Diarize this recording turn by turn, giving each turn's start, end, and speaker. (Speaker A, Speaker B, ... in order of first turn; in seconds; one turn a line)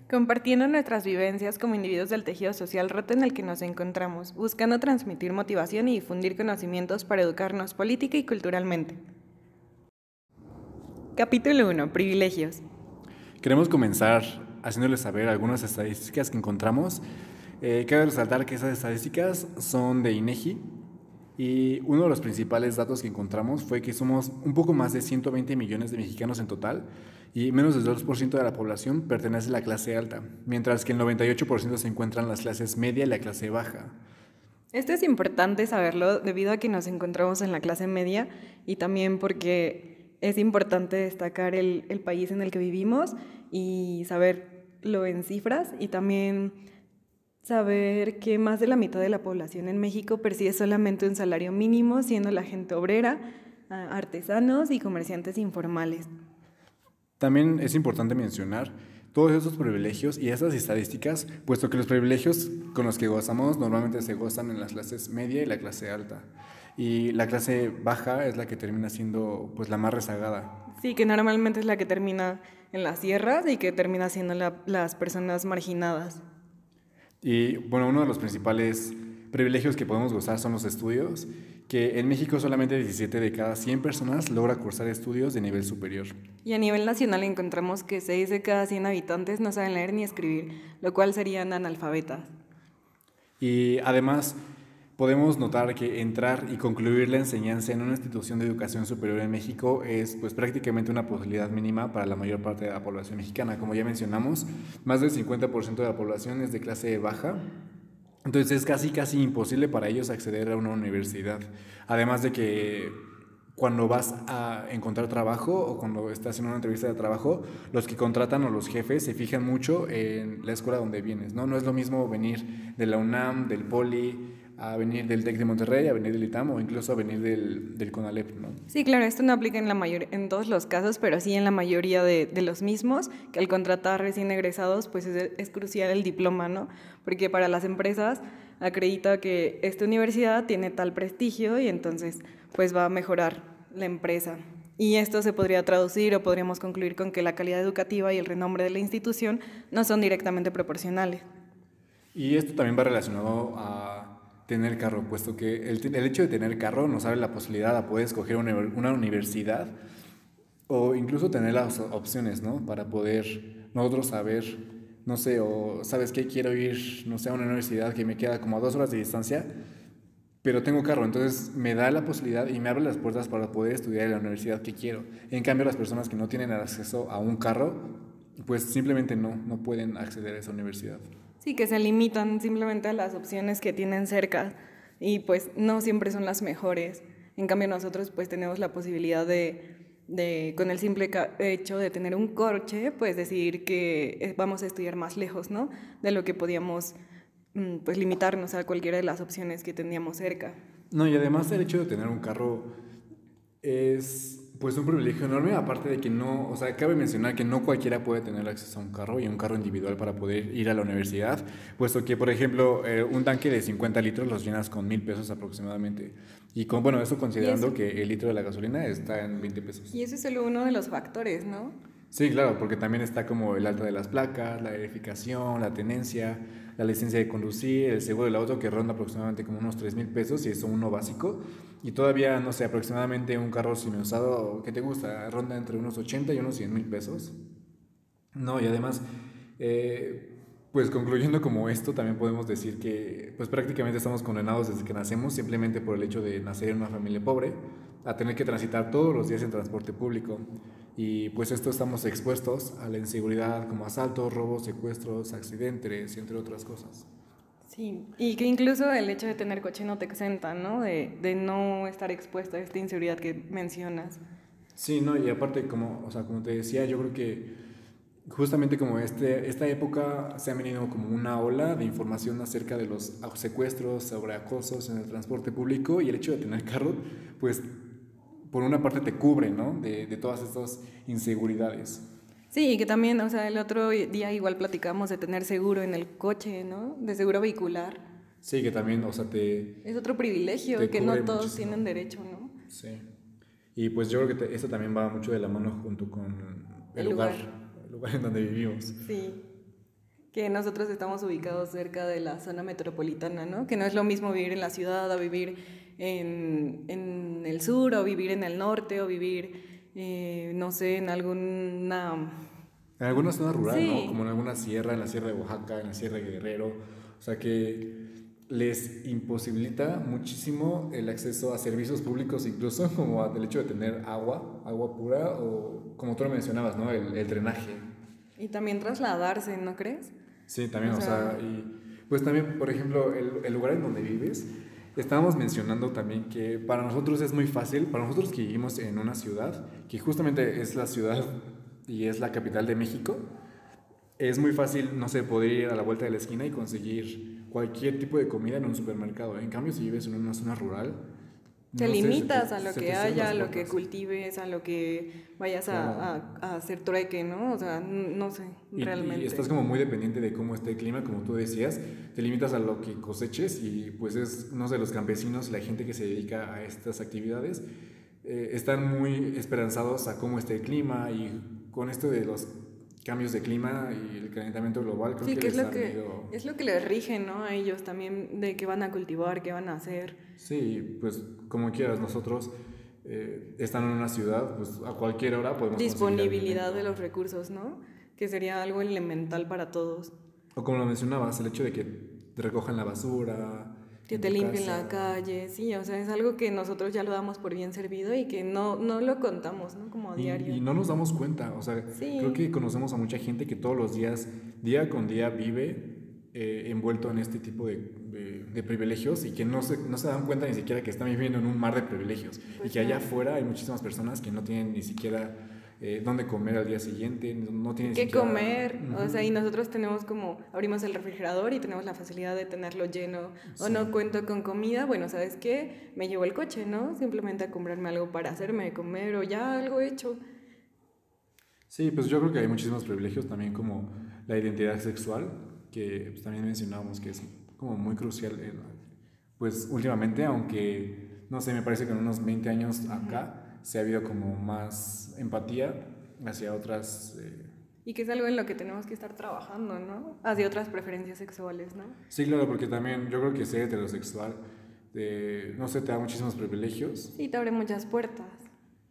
Speaker A: 0.1-9.0
Speaker A: 11.1-12.6
Speaker B: 13.4-17.0
Speaker B: 17.6-20.6
Speaker B: 21.4-34.0
Speaker A: 34.7-46.6
Speaker A: 47.4-56.1
Speaker B: 57.2-70.5
Speaker A: 70.7-76.2
Speaker B: 77.2-86.1
Speaker A: 86.4-92.3
Speaker B: 93.4-94.4
Speaker B: 95.0-107.4
Speaker B: 108.2-113.0
Speaker B: 113.5-128.6
Speaker A: 128.7-151.3
Speaker B: 152.1-159.7
Speaker B: 160.7-169.5
Speaker B: 170.4-181.1
Speaker A: 181.4-196.9
Speaker A: 197.5-200.6
Speaker B: 200.9-202.7
Speaker B: 203.6-220.0
Speaker A: 217.4-217.7
Speaker A: 219.9-221.8
Speaker B: 222.1-237.4
Speaker B: 238.3-239.0
Speaker B: 239.6-250.4
Speaker B: 250.9-257.1
Speaker A: 257.6-264.2
Speaker B: 264.8-267.5
Speaker B: 268.3-277.7
Speaker B: 278.5-282.0
Speaker A: 282.5-288.0
Speaker B: 288.4-289.8
Speaker A: 289.8-292.5
Speaker B: 290.7-291.8
Speaker B: 292.7-293.1
Speaker B: 293.8-299.0
Speaker A: 296.9-297.4
Speaker A: 299.0-299.4
Speaker A: 300.3-312.4
Speaker B: 313.0-318.0
Speaker A: 313.6-314.2
Speaker B: 318.5-327.9
Speaker A: 328.4-330.1
Speaker B: 330.5-343.2
Speaker A: 330.8-331.4
Speaker B: 344.2-351.0
Speaker B: 351.7-353.8
Speaker A: 351.8-359.5
Speaker B: 355.7-356.1
Speaker B: 358.7-367.6
Speaker B: 368.2-372.5
Speaker B: 373.0-376.3
Speaker A: 375.2-380.2
Speaker B: 380.4-382.5
Speaker B: 383.0-387.0
Speaker A: 385.7-390.1
Speaker B: 390.5-395.1
Speaker A: 394.1-400.6
Speaker B: 400.1-419.3
Speaker A: 401.9-402.4
Speaker A: 412.5-413.1
Speaker A: 417.8-430.2
Speaker B: 423.5-423.9
Speaker B: 431.7-438.7
Speaker B: 439.4-447.5
Speaker A: 442.9-443.2
Speaker A: 447.8-452.0
Speaker B: 452.1-454.4
Speaker B: 454.9-457.1
Speaker A: 457.1-458.5